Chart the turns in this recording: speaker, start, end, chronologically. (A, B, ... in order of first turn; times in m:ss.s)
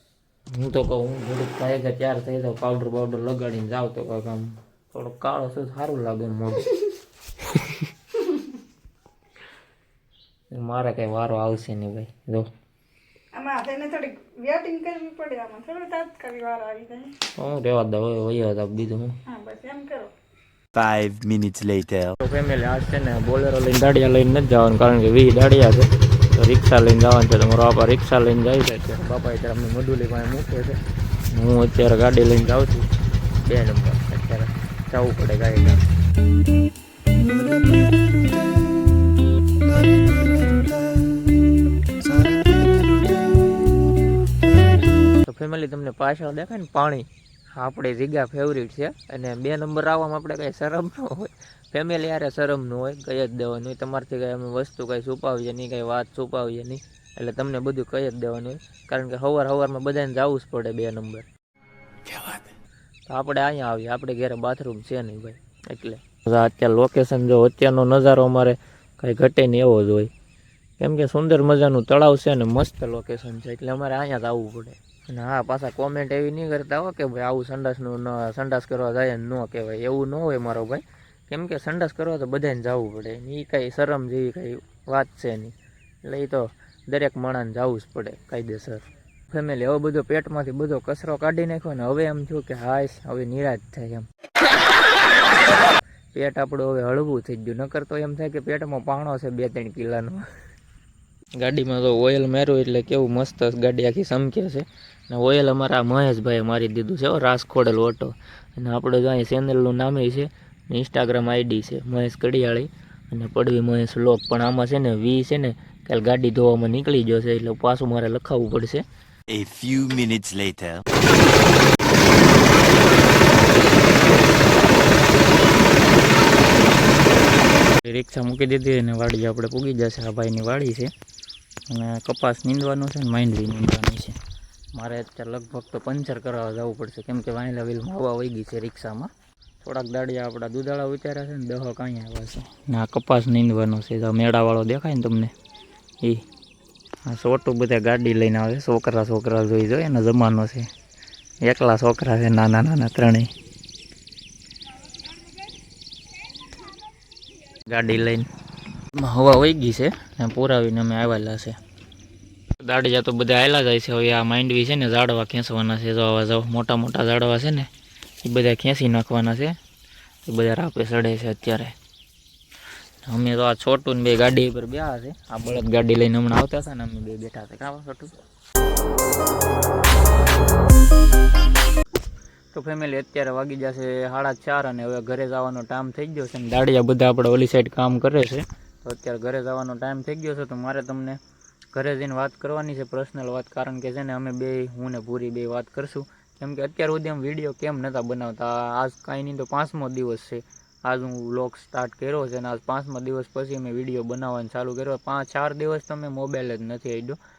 0:00.5-0:06.8 A
0:10.5-0:12.5 A
0:13.3-0:17.1 B
0:17.4-0:19.2 A
0:19.3-0:20.1 B
0:20.7-0:22.2 C
0:22.2-0:30.8 A
0:31.3-0:35.8 A
0:45.2-1:01.3 A
1:02.1-1:02.5 C
1:03.1-1:10.1 A
1:10.8-1:34.1 A
1:36.1-1:40.2 A
1:41.4-1:58.8 A
1:59.3-2:00.8 C
2:07.7-2:10.9 A
2:11.7-2:14.2 A
2:14.8-2:19.1 A
2:19.6-2:25.3 A
2:27.1-2:30.7 A
2:31.4-2:33.3 A
2:37.7-2:38.3 A
2:38.9-2:41.6 A
2:42.6-2:47.7 A
2:48.2-2:49.6 A
2:50.3-2:51.8 A
2:53.0-2:58.1 A
3:02.5-3:11.2 A
3:11.7-3:27.2 A